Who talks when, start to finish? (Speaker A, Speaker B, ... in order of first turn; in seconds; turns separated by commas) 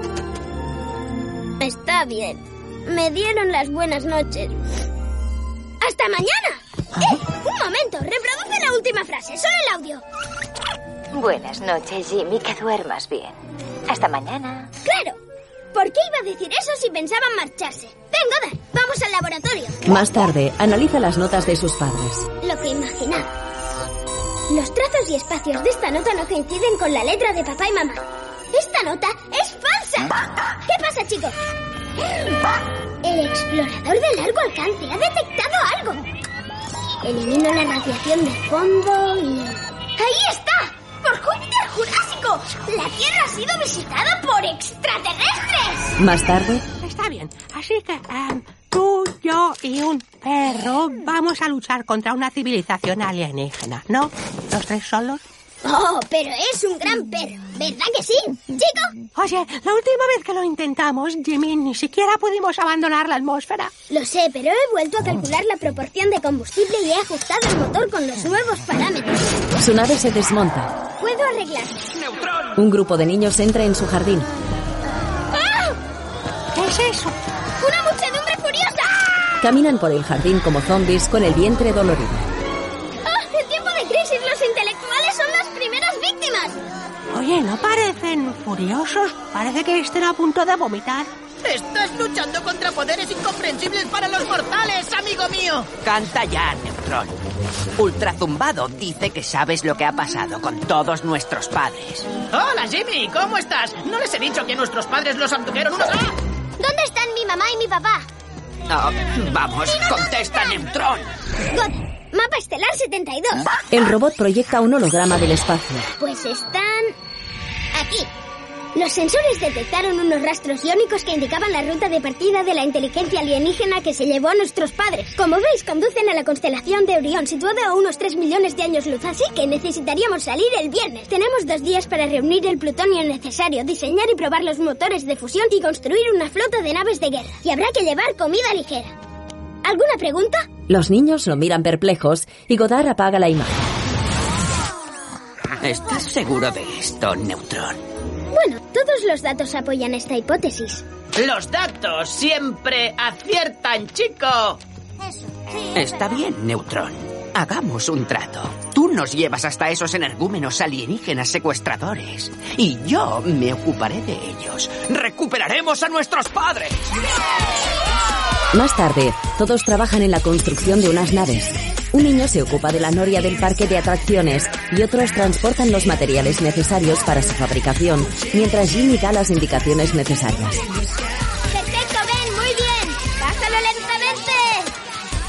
Speaker A: 1.6-4.5, Speaker A: 5.8-10.0, Speaker B: 11.1-14.7, Speaker A: 14.8-15.2, Speaker A: 15.7-19.8, Speaker C: 19.9-22.3, Speaker A: 22.4-23.3, Speaker A: 24.5-31.4, Speaker A: 33.0-36.1, Speaker A: 37.0-45.9, Speaker C: 46.0-46.6, Speaker D: 46.8-55.2, Speaker A: 55.6-58.9, Speaker D: 59.2-63.7, Speaker A: 63.9-69.3, Speaker C: 69.6-70.7, Speaker A: 71.0-71.8, Speaker E: 72.0-72.5, Speaker C: 72.5-74.3, Speaker A: 75.3-75.8, Speaker D: 76.5-77.2, Speaker A: 77.6-79.0, Speaker C: 79.4-82.3, Speaker A: 83.0-86.6, Speaker D: 87.1-91.1, Speaker F: 91.5-95.7, Speaker E: 95.8-97.2, Speaker E: 97.8-102.1, Speaker F: 102.3-106.2, Speaker A: 106.6-108.1, Speaker E: 108.7-111.1, Speaker A: 111.5-113.5, Speaker C: 113.7-115.9, Speaker A: 116.0-117.0, Speaker A: 117.7-118.1, Speaker A: 118.8-138.9, Speaker A: 139.6-140.5, Speaker C: 140.7-143.6, Speaker E: 145.6-147.8, Speaker A: 148.3-150.8, Speaker F: 151.2-154.6, Speaker E: 155.7-166.8, Speaker C: 168.5-180.6, Speaker A: 181.5-184.7